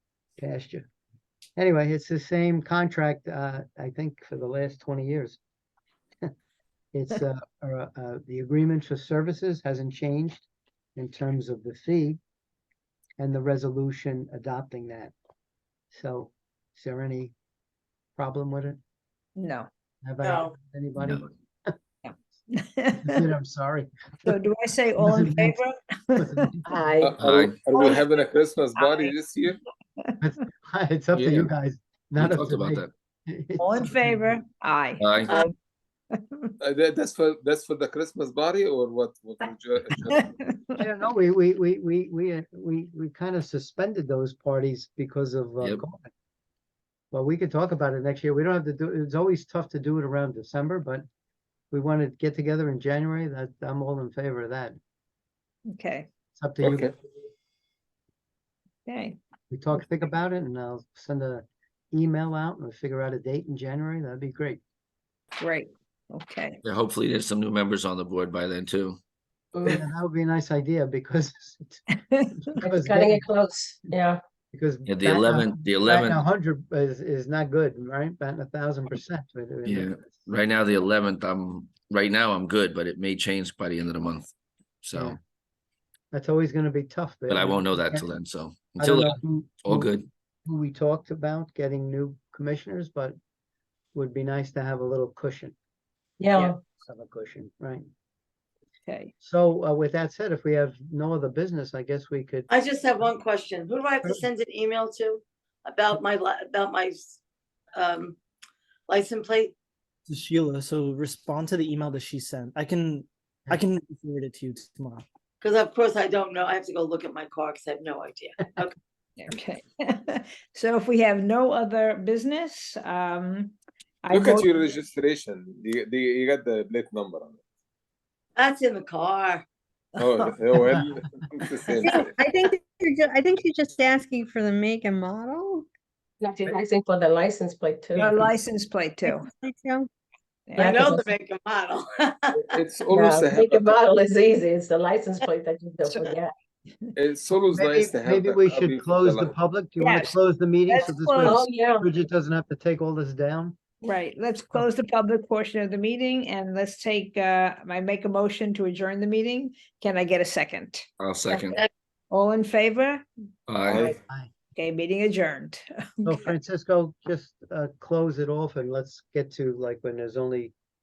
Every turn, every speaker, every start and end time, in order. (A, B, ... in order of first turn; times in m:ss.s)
0:00.4-0:00.9 A
0:01.6-0:05.4 A
0:06.9-0:12.2 A
0:13.2-0:15.1 A
0:15.9-0:17.3 A
0:18.2-0:18.8 A
0:19.4-0:19.7 B
0:20.0-0:21.8 A
0:20.2-0:20.5 C
0:21.0-0:21.2 D
0:22.0-0:23.1 B
0:23.0-0:24.4 A
0:24.3-0:26.2 B
0:25.0-0:25.6 A
0:26.2-0:26.8 A
0:26.7-0:27.1 E
0:27.0-0:29.6 F
0:27.2-0:27.6 D
0:28.8-0:29.1 B
0:30.2-0:34.4 A
0:31.1-0:31.5 D
0:32.2-0:32.9 D
0:33.6-0:35.5 B
0:35.0-0:35.3 D
0:36.2-0:36.5 B
0:36.6-0:40.3 F
0:40.1-0:40.8 B
0:40.8-0:46.1 A
0:47.1-0:51.0 A
0:51.7-0:54.8 A
0:55.7-0:56.1 B
0:56.3-0:57.0 A
0:56.6-0:56.9 F
0:58.8-0:59.2 B
0:59.5-1:04.6 A
1:05.4-1:06.6 B
1:06.6-1:09.0 D
1:09.5-1:09.8 E
1:09.6-1:11.8 A
1:12.4-1:13.3 A
1:12.6-1:14.2 E
1:14.5-1:20.2 A
1:14.9-1:16.2 D
1:19.6-1:24.3 D
1:24.8-1:25.2 D
1:26.1-1:28.0 A
1:27.3-1:30.1 D
1:28.8-1:33.1 A
1:33.9-1:35.5 A
1:36.2-1:36.6 E
1:36.8-1:37.8 A
1:38.8-1:39.1 B
1:39.2-1:42.5 A
1:42.5-1:47.2 C
1:47.7-1:48.2 C
1:48.9-1:49.5 C
1:50.0-1:55.0 G
1:55.4-1:58.7 C
1:59.2-2:04.7 B
2:04.1-2:07.4 F
2:08.4-2:09.4 C
2:10.0-2:12.2 F
2:11.8-2:15.6 H
2:16.2-2:18.3 E
2:18.0-2:19.2 B
2:19.0-2:19.9 H
2:20.5-2:20.8 B
2:20.6-2:21.1 E
2:20.6-2:22.5 C
2:22.5-2:23.8 F
2:22.9-2:26.3 E
2:25.8-2:26.1 B
2:27.0-2:29.3 F
2:27.5-2:33.6 A
2:29.8-2:30.2 B
2:30.7-2:31.4 B
2:31.2-2:31.9 E
2:33.8-2:40.9 B
2:41.0-2:41.6 D
2:42.1-2:43.0 B
2:43.5-2:43.9 D
2:43.7-2:43.9 F
2:43.9-2:44.3 A
2:44.6-2:46.1 B
2:46.0-2:50.5 A